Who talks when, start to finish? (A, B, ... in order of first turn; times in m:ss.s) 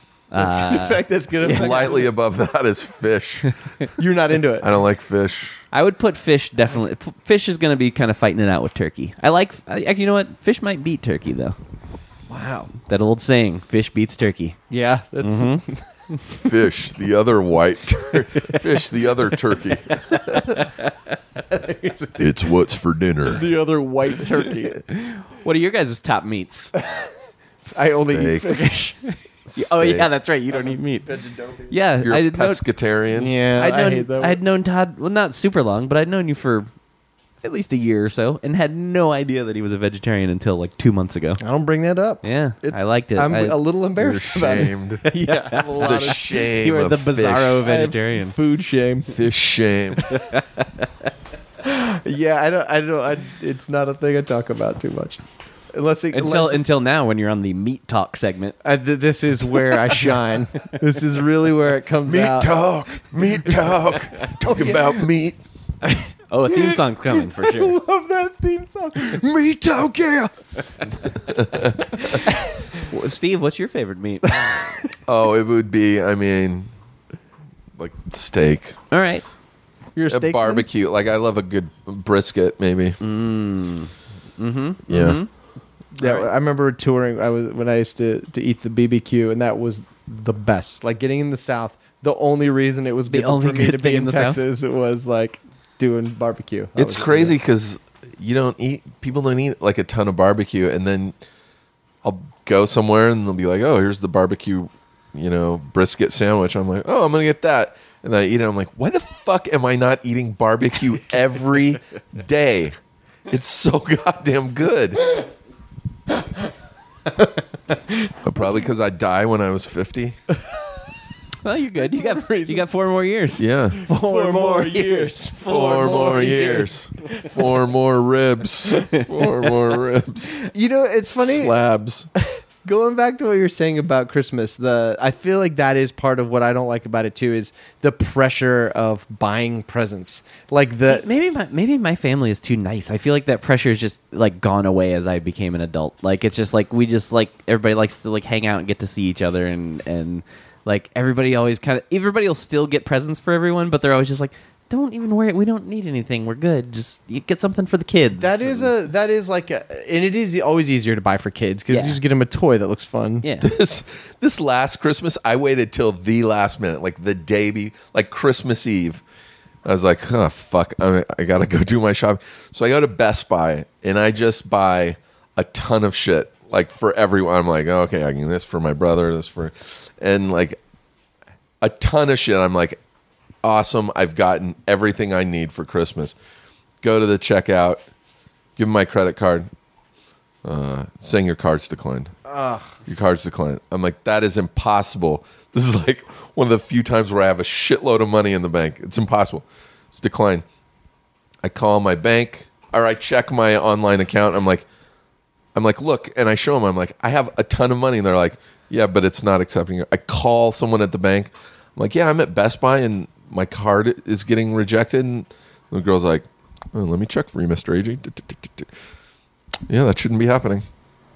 0:00.3-0:01.7 A
0:00.4-0:02.1 B
0:01.3-0:03.5 C
0:04.0-0:04.7 B
0:04.6-0:05.6 C
0:05.7-0:11.6 A
0:12.3-0:12.7 B
0:12.8-0:14.6 A
0:14.7-0:15.8 B
0:15.2-0:15.6 A
0:16.3-0:20.6 C
0:21.5-0:22.2 B
0:22.2-0:23.5 C
0:23.3-0:24.8 B
0:24.9-0:26.7 A
0:26.8-0:27.0 B
0:27.6-0:29.0 B
0:27.7-0:28.6 C
0:29.5-0:30.1 C
0:29.5-0:32.6 A
0:32.0-0:33.3 C
0:33.1-0:34.4 B
0:33.6-0:36.7 A
0:37.4-0:41.4 A
0:41.4-0:46.2 B
0:42.2-0:43.6 A
0:44.0-0:45.1 C
0:45.1-0:48.4 A
0:45.8-0:47.7 C
0:47.6-0:49.1 B
0:49.1-0:50.2 C
0:50.1-0:50.8 A
0:51.6-0:55.2 B
0:55.7-0:56.6 B
0:56.1-0:58.6 A
0:58.6-1:02.6 B
1:02.0-1:05.4 C
1:04.5-1:04.8 B
1:05.8-1:07.8 A
1:06.5-1:10.3 B
1:11.2-1:12.2 C
1:12.8-1:14.8 A
1:15.1-1:16.7 C
1:17.8-1:18.8 C
1:18.9-1:19.2 A
1:20.0-1:20.7 B
1:20.1-1:23.0 C
1:23.0-1:25.3 A
1:24.9-1:25.2 C
1:26.0-1:37.4 B
1:33.1-1:34.4 A
1:36.8-1:41.2 C
1:42.0-1:52.8 C
1:53.3-1:55.2 C
1:58.2-2:00.2 C
2:01.4-2:06.6 A
2:01.8-2:02.6 B
2:03.4-2:03.8 C
2:03.9-2:06.7 B
2:05.4-2:10.4 C
2:08.8-2:09.0 A
2:10.5-2:11.5 B
2:11.1-2:12.1 C
2:12.2-2:21.1 B
2:20.9-2:38.7 A
2:38.2-2:43.3 B
2:41.7-2:42.0 A
2:43.2-2:43.5 A
2:43.4-2:49.0 C
2:49.6-3:00.6 C
3:01.6-3:02.8 C
3:03.4-3:06.2 C
3:06.8-3:07.8 C
3:08.6-3:09.5 C
3:10.4-3:12.1 C
3:12.3-3:12.7 B
3:12.9-3:20.4 C
3:21.4-3:24.7 C
3:25.6-3:38.7 C
3:39.7-3:40.7 C